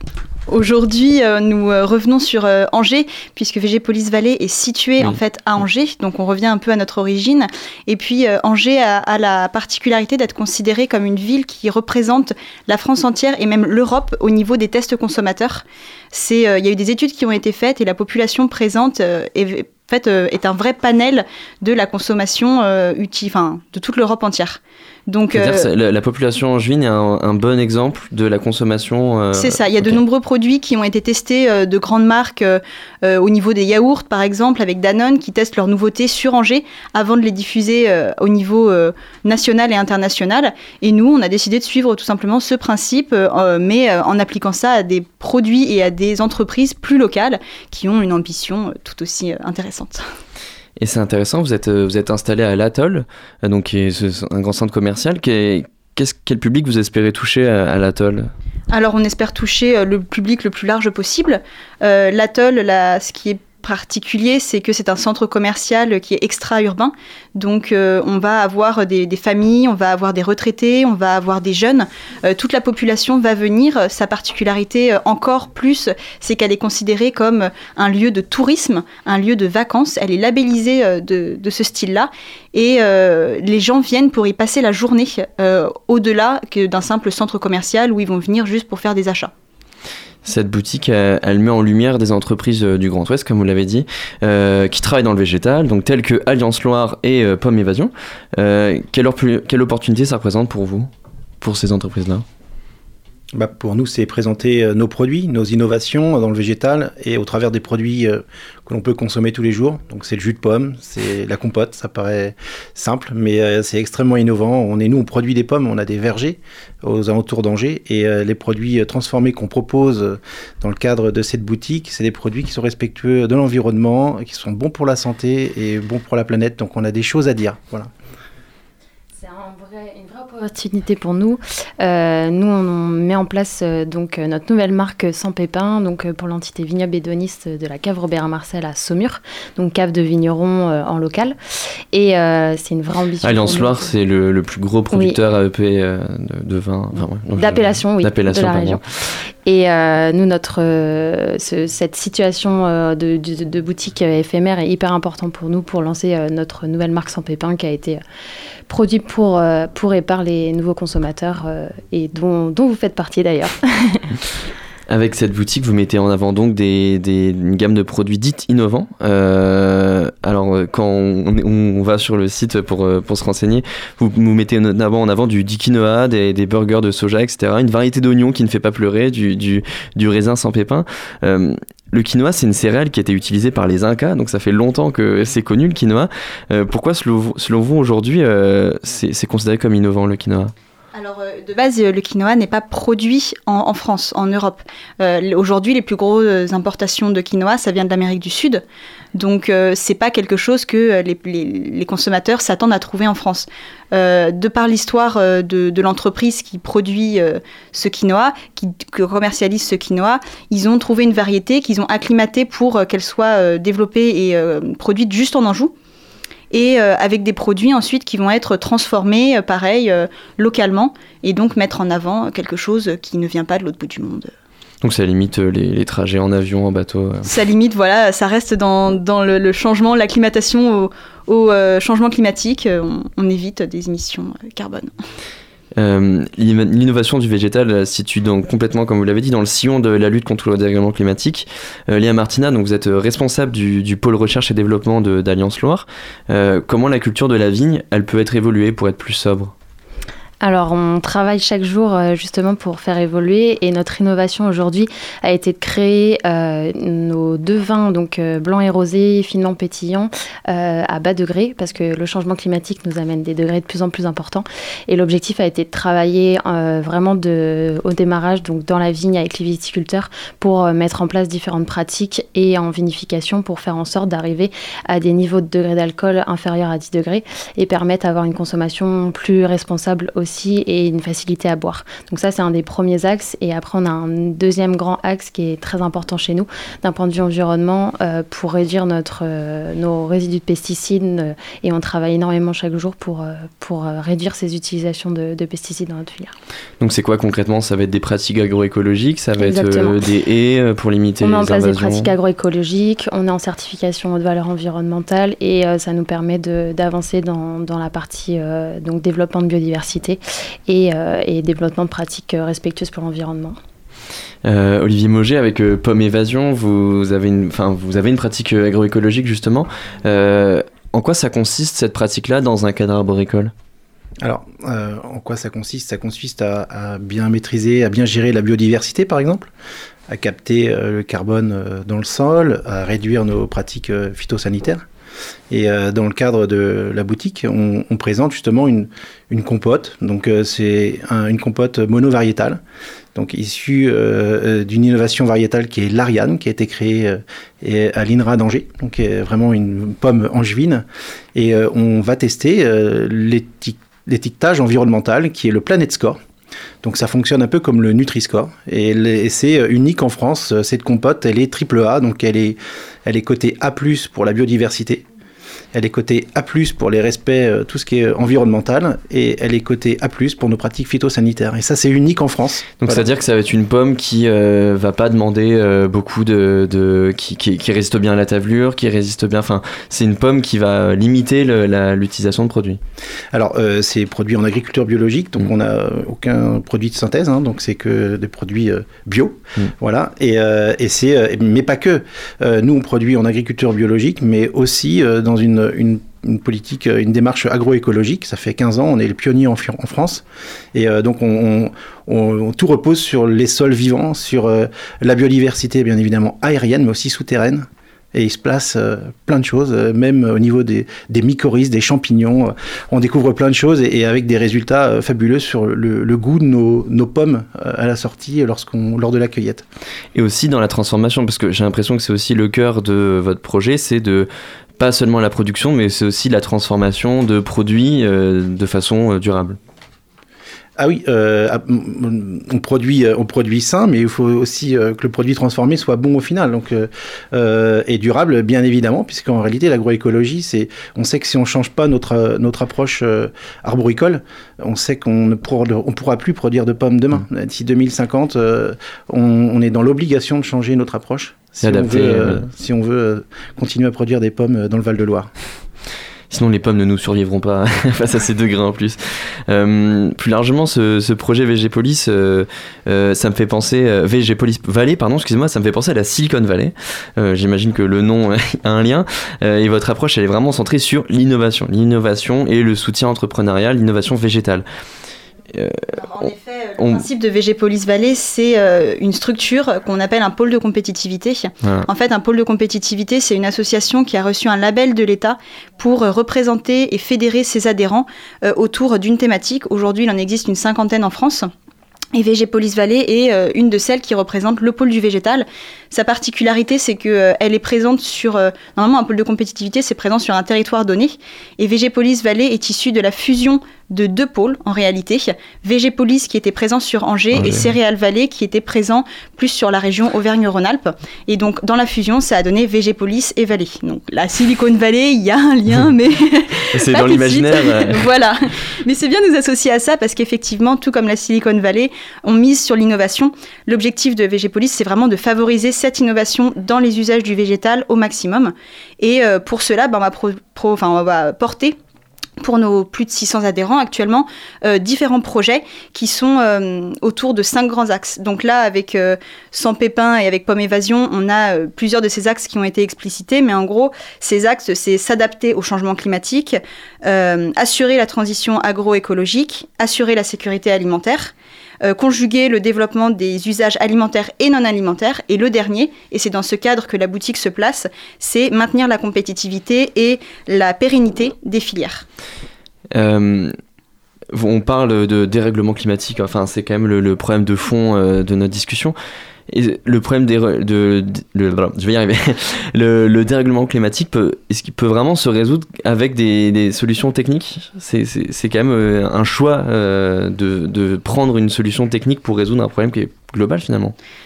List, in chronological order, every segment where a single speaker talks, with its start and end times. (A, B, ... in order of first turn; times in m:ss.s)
0:00.5-0:25.7 A
0:25.3-0:30.0 B
0:29.3-0:50.0 A
0:50.8-0:58.3 B
0:58.7-1:29.3 A
1:30.2-1:40.9 B
1:41.4-1:42.2 B
1:43.3-2:07.9 C
2:09.2-2:21.4 D
2:21.9-2:23.9 D
2:23.2-2:28.8 B
2:24.9-2:25.2 D
2:27.3-2:28.8 D
2:29.4-2:38.0 D
2:38.7-2:44.0 D
2:44.9-3:10.5 B
3:10.9-3:18.6 A
3:19.1-3:35.7 A
3:36.5-3:44.3 A
3:44.8-3:47.3 B
3:47.2-3:54.9 A
3:55.8-4:09.5 B
4:10.4-4:56.3 D
4:56.8-5:02.1 B
4:59.4-5:00.0 D
5:01.2-5:13.6 D
5:14.4-5:23.5 B
5:24.2-5:29.5 C
5:30.1-5:34.8 C
5:35.5-5:42.6 C
5:43.1-5:56.2 C
5:56.8-6:05.0 C
6:05.7-6:13.0 C
6:12.8-6:22.8 B
6:23.3-6:59.6 C
7:00.1-7:09.6 B
7:10.8-7:35.3 C
7:31.6-7:32.5 B
7:36.3-7:54.6 B
7:55.5-7:56.3 B
7:55.9-8:11.5 A
8:01.6-8:01.9 B
8:12.1-8:51.8 A
8:27.3-8:27.7 B
8:36.7-8:38.0 B
8:52.4-9:22.0 A
9:22.9-9:23.5 B
9:24.3-9:29.0 B
9:29.5-9:43.9 B